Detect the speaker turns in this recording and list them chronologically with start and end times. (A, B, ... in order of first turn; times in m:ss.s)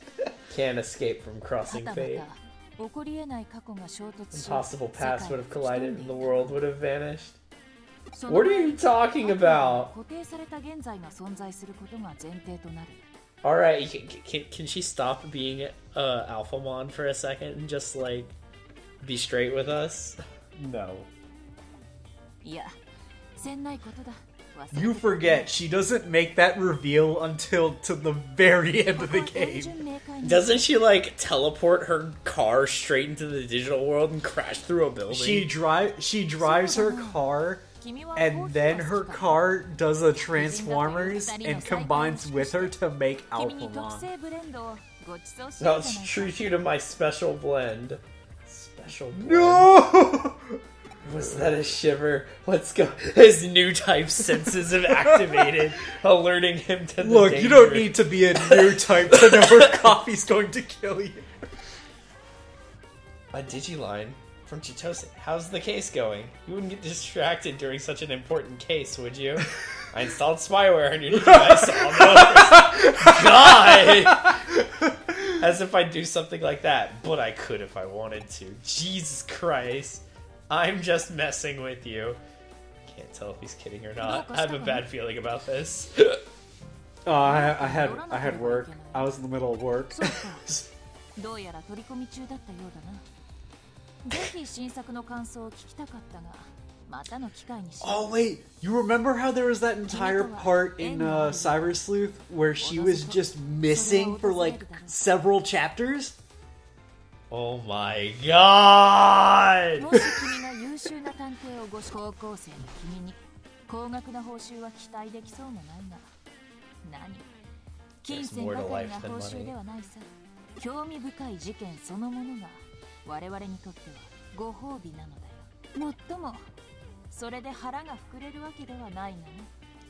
0:00.5-0:02.3 A
0:01.7-0:06.6 B
0:04.3-0:07.4 A
0:08.1-0:13.1 B
0:08.3-0:09.9 A
0:13.4-0:18.3 A
0:19.0-0:20.2 A
0:20.6-0:21.1 C
0:22.4-0:22.8 B
0:23.4-0:25.5 B
0:24.7-0:29.8 C
0:28.9-0:30.7 B
0:30.2-0:35.5 A
0:35.1-0:44.1 C
0:36.4-0:39.6 B
0:40.1-0:42.8 B
0:43.3-0:46.5 B
0:45.6-0:49.8 A
0:49.1-0:50.6 C
0:51.0-1:00.0 A
0:51.2-0:51.6 C
0:54.2-0:55.6 C
0:57.0-1:01.3 C
1:03.3-1:14.6 A
1:11.1-1:15.2 C
1:15.3-1:22.2 A
1:22.8-1:26.2 A
1:24.0-1:24.9 B
1:27.0-1:30.7 C
1:27.2-1:29.2 B
1:29.9-1:30.6 B
1:31.2-1:33.0 B
1:34.0-1:38.3 B
1:37.8-1:46.2 C
1:39.9-1:41.7 B
1:42.6-1:45.0 B
1:47.3-1:49.8 A
1:49.8-1:56.1 B
1:49.9-1:50.3 C
1:56.8-1:57.3 B
1:58.0-2:06.5 B
1:58.1-1:59.5 A
2:07.1-2:09.5 B